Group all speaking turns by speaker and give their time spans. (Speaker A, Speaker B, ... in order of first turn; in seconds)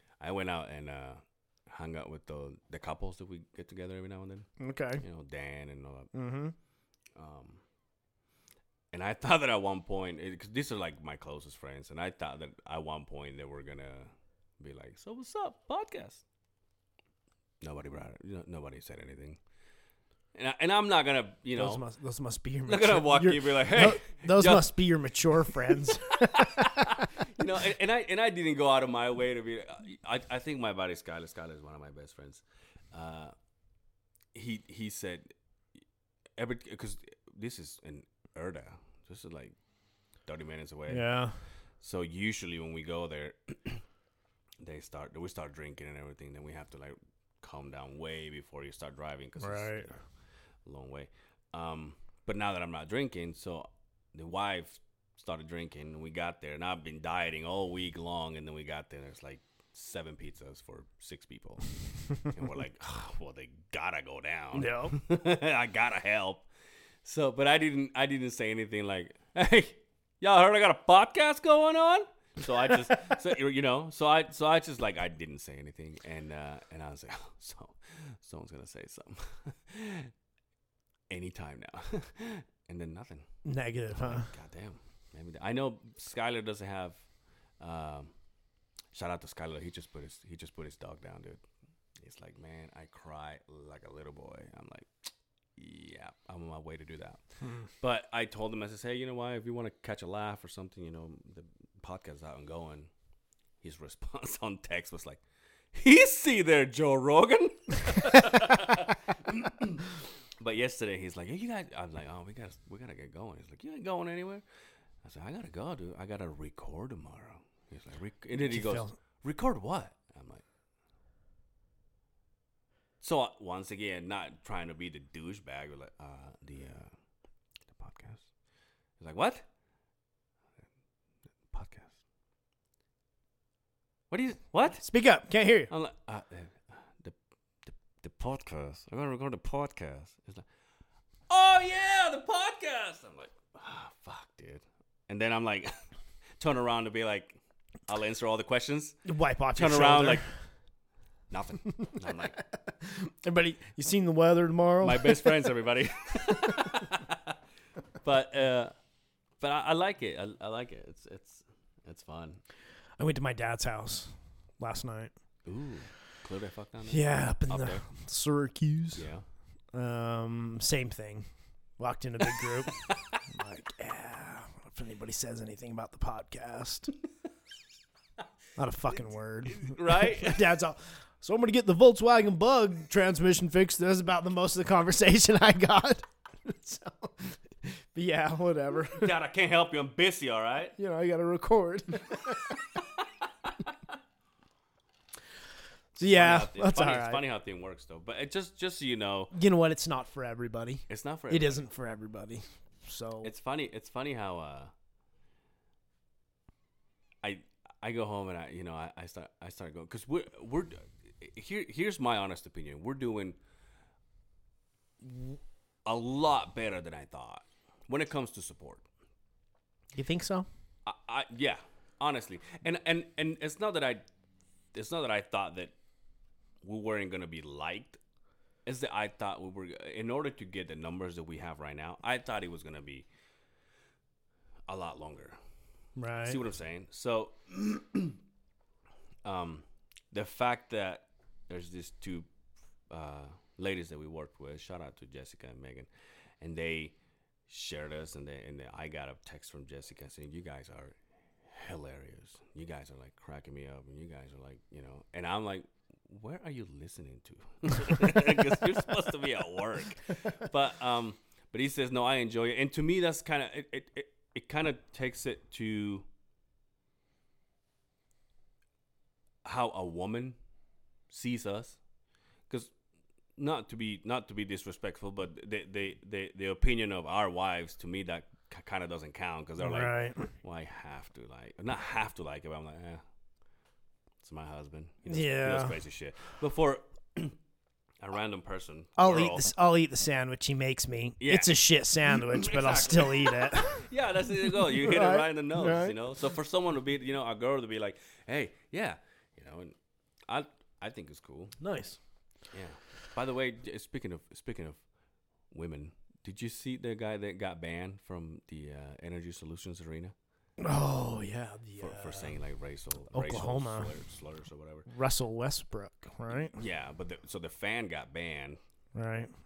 Speaker A: 0.2-6.1, 7.1-7.6, 8.9-16.2, 17.6-19.4, 20.3-21.8, 22.6-24.7, 25.5-33.3, 34.3-35.3, 36.4-39.5, 40.2-41.1, 41.8-43.8, 44.6-50.0, 50.6-66.5, 67.0-80.1, 81.1-83.3, 83.9-87.0, 87.6-88.1, 88.9-91.4, 92.0-94.9, 95.5-97.2, 97.8-102.9, 103.6-114.4, 115.0-120.4, 123.0-126.9, 127.7-128.3, 129.0-129.4, 131.5-132.0, 134.1-134.8, 135.7-140.4, 141.3-145.7, 146.4-149.0, 149.5-150.3, 151.3-152.3, 154.8-157.4, 158.0-158.7, 159.4-162.4, 165.4-167.8, 168.9-169.2, 179.4-180.5, 188.9-190.7, 192.7-193.7, 196.0-199.3, 200.9-201.6, 203.2-204.7, 207.2-213.4, 215.0-218.8, 220.8-224.0, 224.7-225.7, 226.6-228.0, 228.7-233.1, 234.7-235.4, 236.2-238.2, 239.2-242.3, 242.9-245.9, 246.4-246.9, 247.5-266.1, 269.4-270.4, 271.1-271.8, 273.4-283.0, 284.2-287.4, 288.0-289.5, 291.2-299.7, 300.3-301.5, 302.5-304.8, 305.5-310.1, 311.8-314.9, 316.3-318.6
Speaker B: 4.6-5.0, 6.1-6.5, 21.5-27.1, 40.9-41.4, 49.4-49.9, 64.5-65.0, 83.4-84.3, 118.4-119.0, 134.8-135.7, 149.0-150.3, 152.7-155.4, 156.4-156.7, 163.0-165.1, 166.9-169.1, 169.7-171.3, 171.8-176.9, 178.6-189.1, 190.8-192.5, 195.9-197.2, 199.3-203.3, 219.9-220.5, 236.0-236.4, 279.6-280.3, 285.1-285.8, 289.0-293.9, 294.4-296.0, 301.6-302.0, 310.6-312.4, 313.1-313.9, 314.9-316.6, 318.9-319.3